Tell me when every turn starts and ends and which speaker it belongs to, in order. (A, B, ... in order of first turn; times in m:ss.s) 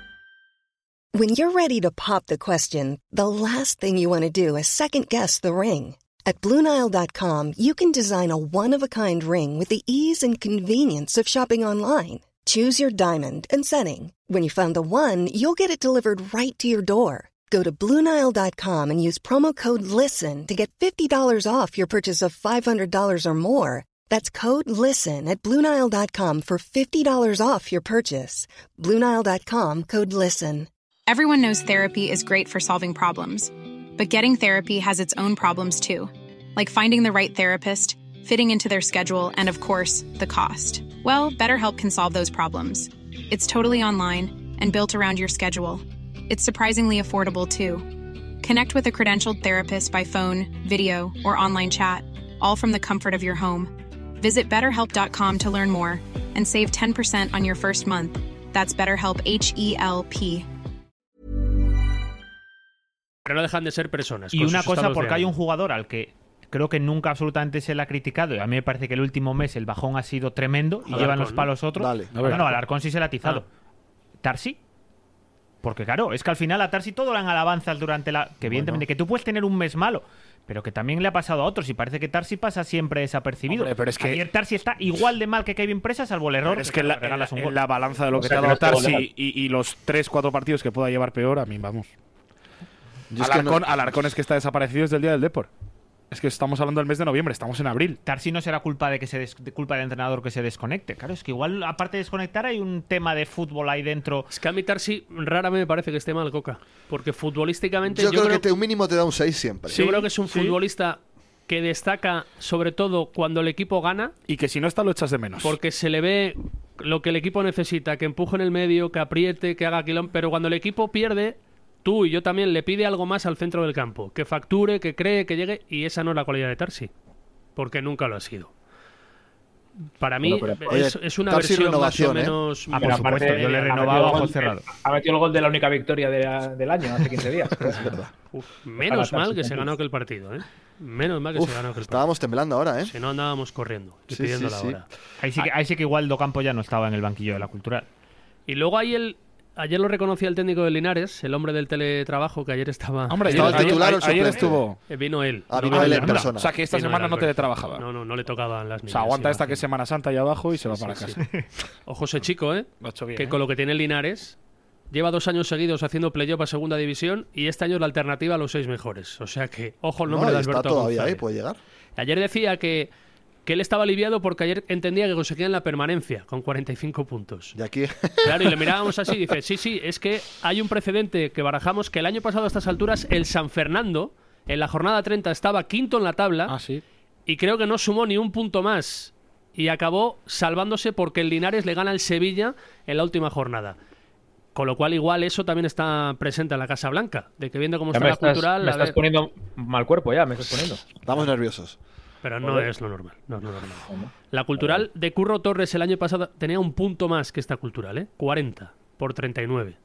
0:01.1-0:30.7 A
0:31.1-1:00.5 B
1:03.2-1:05.3 C
1:04.3-1:13.4 D
1:10.9-1:11.5 C
1:11.8-1:12.2 E
1:12.1-1:12.5 F
1:14.2-1:14.6 D
1:15.6-1:27.6 D
1:18.4-1:18.8 E
1:23.5-1:24.2 F
1:26.5-1:31.9 F
1:28.1-1:29.1 G
1:33.1-1:33.6 E
1:33.2-1:35.5 F
1:36.1-1:38.0 F
1:38.1-1:44.3 D
1:44.3-1:48.4 C
1:47.9-1:49.9 E
1:49.7-1:50.6 F
1:49.7-1:54.1 C
1:54.3-1:55.6 F
1:55.4-2:06.9 C
2:07.6-2:08.5 C
2:10.0-2:14.3 C
2:10.2-2:10.6 G
2:10.7-2:12.4 E
2:12.7-2:14.7 D
2:12.8-2:18.0 G
2:17.6-2:18.1 E
2:18.3-2:22.1 C
2:18.8-2:19.7 G
2:21.4-2:22.9 E
2:22.9-2:24.9 C
2:24.1-2:24.8 E
2:25.2-2:27.9 D
2:28.5-2:34.3 C
2:33.1-2:34.8 F
2:33.2-2:34.6 E
2:34.9-2:39.6 C
2:35.5-2:36.5 E
2:35.7-2:37.8 F
2:35.8-2:36.3 D
2:38.9-2:41.2 F
2:40.7-2:41.2 C
2:41.9-2:44.4 C
2:42.8-2:43.4 F
2:44.9-2:51.2 C
2:50.0-2:51.6 E
2:52.0-2:52.9 C
2:53.5-2:57.6 C
2:57.6-2:58.8 E
2:58.2-3:06.6 C
3:06.5-3:06.8 F
3:07.3-3:13.8 C
3:14.6-3:19.0 C
3:17.9-3:21.2 G
3:21.0-3:21.8 E
3:22.2-3:29.8 C
3:22.4-3:22.7 G
3:23.9-3:24.8 G